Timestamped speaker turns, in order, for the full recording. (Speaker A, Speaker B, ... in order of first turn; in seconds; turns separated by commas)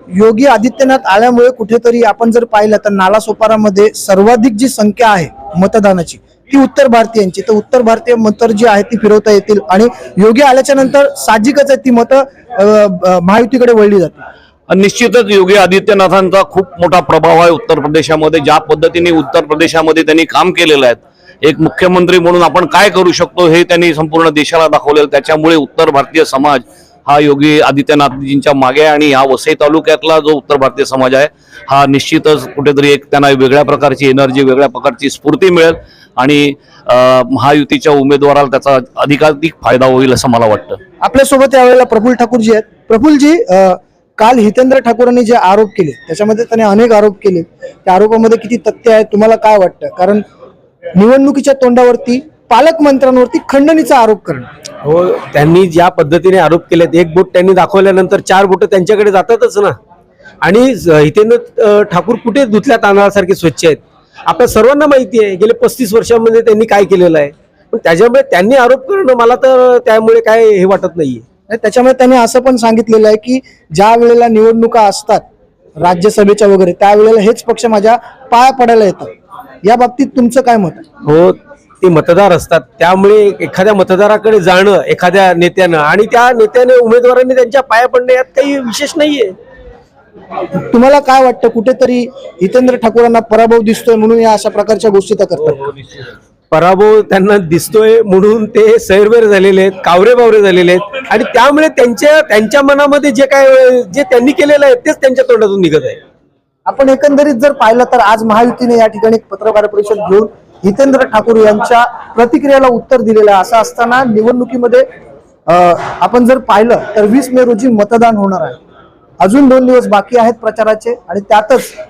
Speaker A: 0.1-14.3, Speaker B: 14.7-40.8, Speaker A: 41.0-50.2, Speaker A: 51.0-54.5, Speaker C: 54.8-59.8, Speaker C: 60.4-71.2, Speaker A: 71.5-75.2, Speaker A: 75.8-79.1, Speaker A: 79.6-80.8, Speaker C: 81.0-89.4, Speaker A: 90.7-95.7, Speaker C: 96.5-106.0, Speaker A: 106.7-114.9, Speaker A: 115.5-118.6, Speaker A: 119.2-121.8